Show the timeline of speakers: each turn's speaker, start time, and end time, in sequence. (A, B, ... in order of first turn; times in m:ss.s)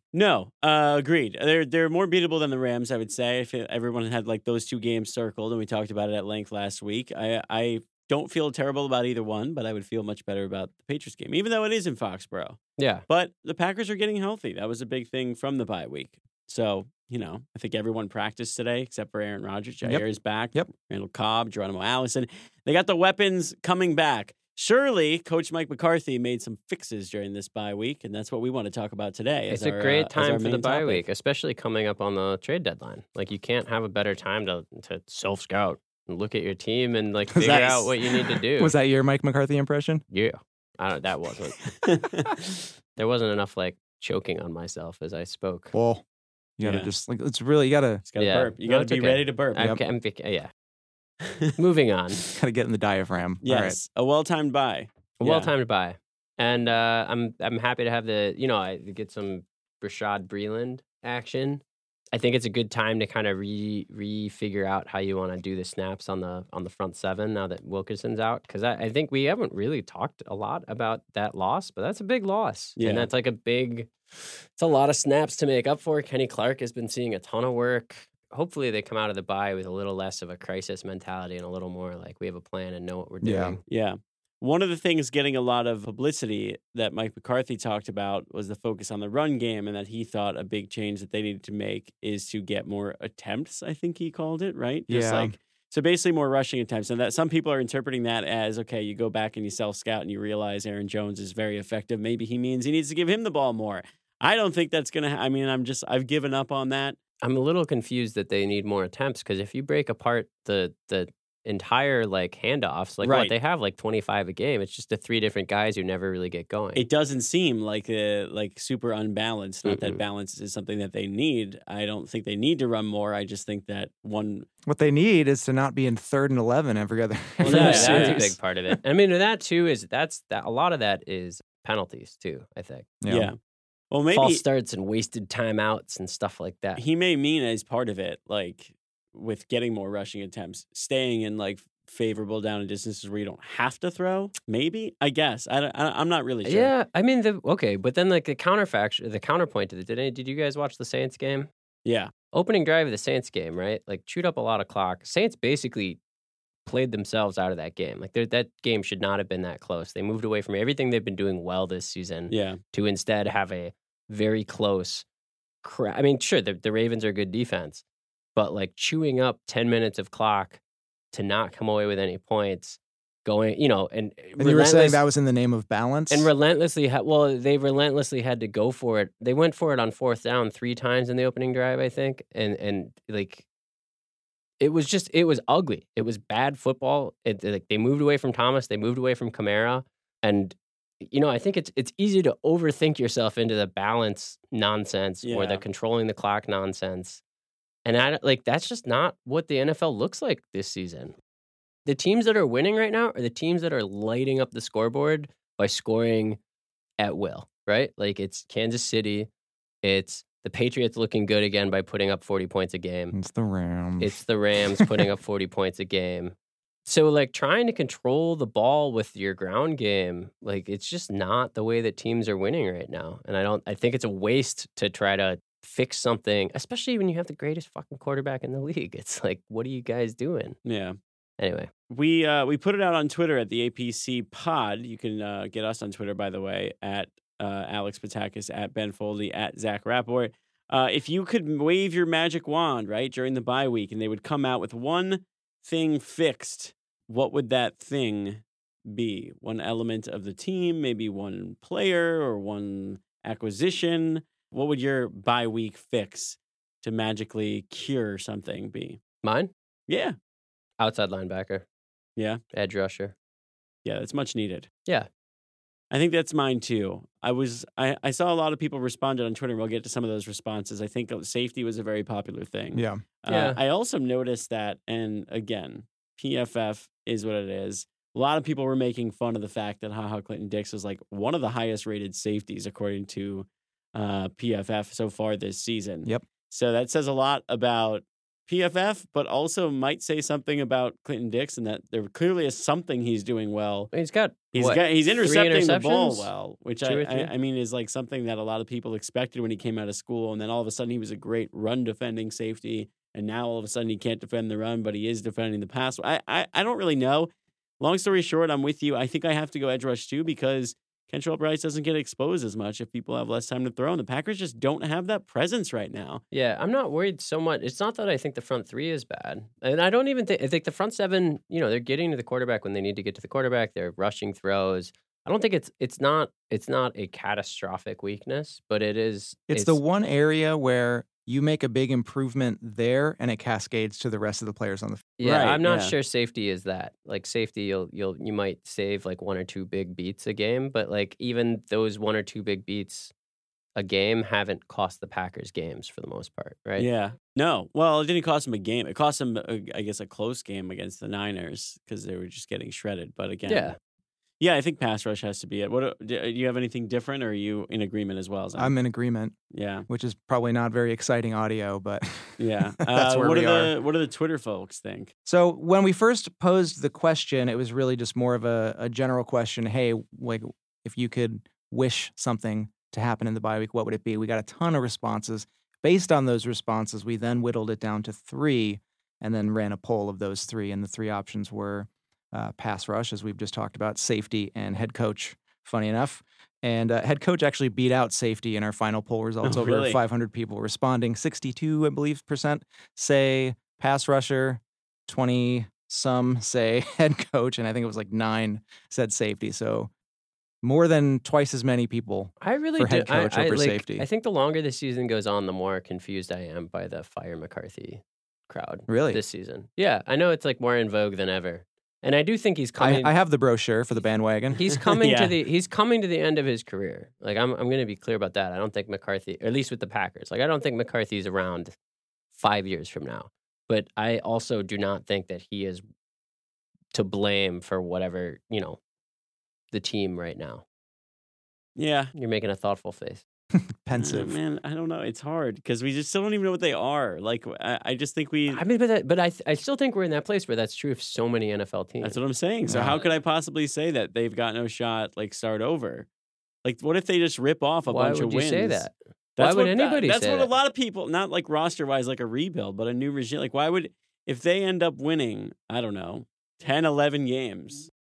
0:00.1-0:31.0 A
0:12.8-0:13.0 B
0:29.5-0:38.8 B
0:37.3-0:40.0 C
0:40.1-0:41.6 B
0:41.8-0:42.6 A
0:43.0-0:45.7 B
0:45.7-0:46.0 C
0:46.6-0:48.0 C
0:46.6-0:46.9 A
0:48.1-0:49.6 A
0:48.2-0:50.5 B
0:51.2-0:51.6 A
0:51.6-0:52.2 B
0:52.3-0:53.8 C
0:53.4-0:55.5 A
0:55.2-1:01.6 B
1:02.1-1:23.6 B
1:12.8-1:13.1 A
1:23.2-1:23.6 C
1:23.7-1:47.0 A
1:34.9-1:35.4 C
1:47.2-1:56.8 B
1:53.0-1:53.3 A
1:56.8-2:04.5 A
1:59.6-2:00.0 B
2:04.7-2:08.4 C
2:07.4-2:08.3 A
2:07.4-2:12.9 B
2:13.0-2:13.3 C
2:13.1-2:13.4 A
2:13.9-2:14.4 A
2:14.1-2:16.8 B
2:16.8-2:26.7 A
2:26.4-2:31.5 B
2:31.8-2:32.1 A
2:32.3-2:36.0 B
2:36.7-2:45.0 B
2:42.3-2:42.6 A
2:45.6-2:47.8 B
2:48.4-2:50.6 B
2:51.1-2:55.0 B
2:54.4-2:56.3 C
2:56.1-3:03.5 B
3:04.6-3:17.2 B
3:15.2-3:15.6 A
3:17.8-3:21.2 B
3:21.9-3:26.4 B
3:27.0-3:29.3 B
3:29.8-3:33.2 B
3:33.1-3:34.2 C
3:34.0-3:36.4 B
3:36.9-3:50.6 B
3:50.6-3:51.0 A
3:51.4-3:51.7 B
3:51.9-4:19.0 A
4:19.2-4:19.5 B
4:19.9-4:20.2 A
4:20.8-4:21.6 B
4:22.5-4:23.1 B
4:23.8-4:24.7 A
4:25.9-4:53.9 A
4:32.7-4:33.0 C
4:33.3-4:33.6 B
4:53.9-4:56.3 B
4:54.5-5:07.3 A
4:56.8-4:57.3 B
5:07.8-5:16.2 A
5:16.3-5:29.8 B
5:29.5-5:35.1 C
5:35.2-5:43.1 B
5:35.2-5:35.9 A
5:43.8-5:46.9 B
5:46.8-5:53.8 A
5:53.5-5:53.8 B
5:54.4-5:58.8 A
5:58.6-5:59.4 C
5:59.5-5:59.9 A
5:59.9-6:03.7 C
6:02.4-6:05.1 A
6:05.3-6:39.9 C
6:29.4-6:30.0 A
6:40.6-6:44.1 C
6:42.4-6:53.1 B
6:48.9-6:49.2 C
6:52.8-6:54.6 C
6:54.6-7:01.7 B
6:55.0-6:55.4 A
7:02.4-7:05.8 B
7:06.9-7:08.8 B
7:09.7-7:10.6 B
7:11.8-7:12.1 A
7:12.1-7:13.2 B
7:13.5-7:14.4 C
7:14.0-7:18.6 A
7:18.5-7:22.2 B
7:22.0-7:26.1 A
7:22.7-7:23.0 C
7:26.6-7:28.8 A
7:27.9-7:30.5 B
7:29.4-7:37.9 A